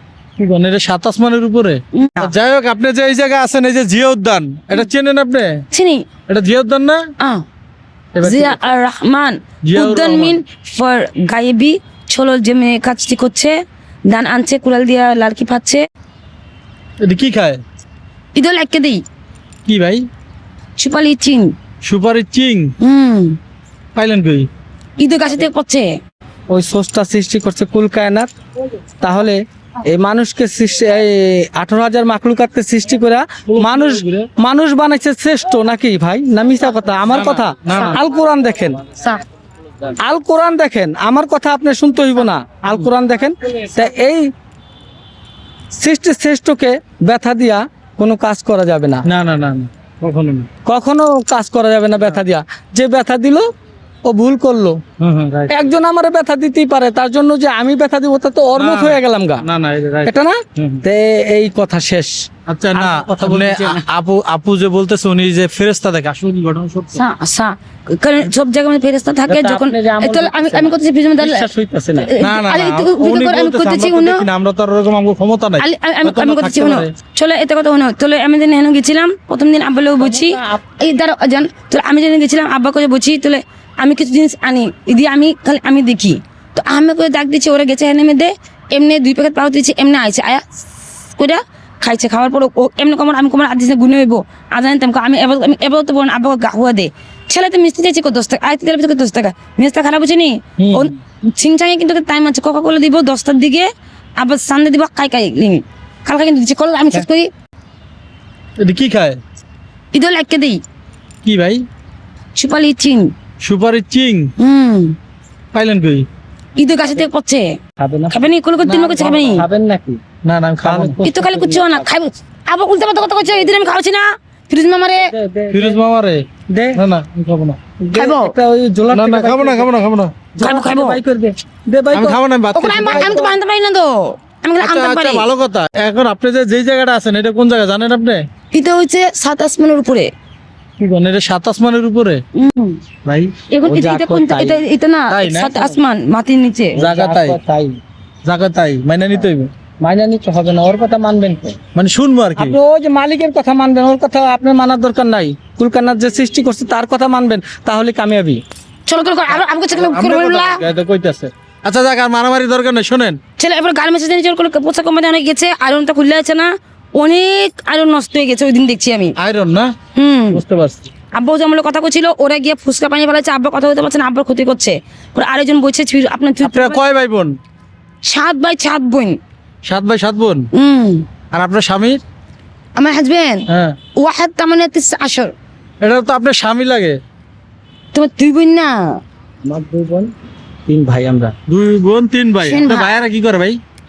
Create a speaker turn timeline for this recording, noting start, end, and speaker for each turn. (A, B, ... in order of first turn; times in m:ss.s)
0:00.4-0:05.6 A
0:02.0-0:02.3 B
0:05.7-0:06.0 B
0:06.3-0:07.0 A
0:08.1-0:08.6 A
0:08.2-0:13.6 B
0:09.6-0:10.4 A
0:14.1-0:15.8 B
0:17.0-0:17.6 A
0:18.3-0:19.0 B
0:19.6-0:20.0 A
0:20.8-0:21.5 B
0:21.8-0:22.7 A
0:22.8-0:23.4 B
0:23.9-0:24.5 A
0:25.0-0:25.9 B
0:26.5-0:28.3 C
0:29.0-0:38.8 C
0:33.4-0:34.3 A
0:37.1-0:38.0 A
0:39.0-0:39.2 B
0:40.0-0:44.3 C
0:45.7-0:49.0 C
0:49.0-0:50.5 A
0:50.6-0:53.5 C
0:54.0-0:54.8 C
0:55.0-0:55.7 A
0:55.5-0:59.4 C
0:58.5-1:00.8 A
1:00.0-1:02.2 C
1:02.5-1:07.0 A
1:02.7-1:03.8 C
1:06.9-1:14.2 B
1:09.3-1:12.1 C
1:12.2-1:16.9 A
1:15.6-1:47.3 B
1:20.0-1:20.6 C
1:40.6-1:40.9 A
1:48.6-1:49.2 A
1:49.9-1:50.6 B
1:51.2-1:51.6 A
1:52.4-1:53.1 B
1:53.4-1:54.3 A
1:54.4-1:55.0 B
1:55.5-1:56.1 A
1:56.6-1:57.6 B
1:57.8-1:58.2 C
1:58.1-1:59.4 B
1:58.6-1:59.4 A
1:59.3-2:00.0 C
2:00.2-2:01.0 A
2:00.6-2:01.9 C
2:01.0-2:05.1 B
2:04.9-2:05.8 C
2:05.5-2:07.6 A
2:06.5-2:06.8 C
2:07.8-2:09.7 C
2:07.9-2:08.4 B
2:08.9-2:10.1 A
2:10.3-2:12.2 C
2:10.4-2:11.0 B
2:11.9-2:13.2 A
2:12.5-2:15.3 B
2:12.7-2:13.4 C
2:14.6-2:18.2 A
2:18.5-2:20.1 B
2:20.8-2:22.2 A
2:22.3-2:22.8 B
2:23.0-2:23.3 A
2:23.5-2:26.8 B
2:23.6-2:24.6 C
2:25.1-2:25.7 A
2:26.8-2:27.4 A
2:26.8-2:27.8 C
2:28.2-2:29.5 A
2:29.8-2:31.6 C
2:31.7-2:32.6 A
2:32.4-2:38.4 C
2:38.9-2:40.6 B
2:39.3-2:43.2 A
2:43.4-2:49.1 B
2:49.2-2:49.7 A
2:49.9-2:50.4 B
2:50.3-2:50.9 A
2:51.1-2:56.8 B
2:56.4-2:57.3 A
2:58.0-2:59.2 B
2:59.6-3:00.5 A
3:00.5-3:01.0 B
3:01.3-3:02.0 A
3:02.8-3:05.3 B
3:03.5-3:03.8 A
3:05.8-3:07.0 A
3:07.9-3:09.0 B
3:09.4-3:10.1 C
3:10.7-3:11.3 C
3:11.5-3:13.6 A
3:12.4-3:13.0 B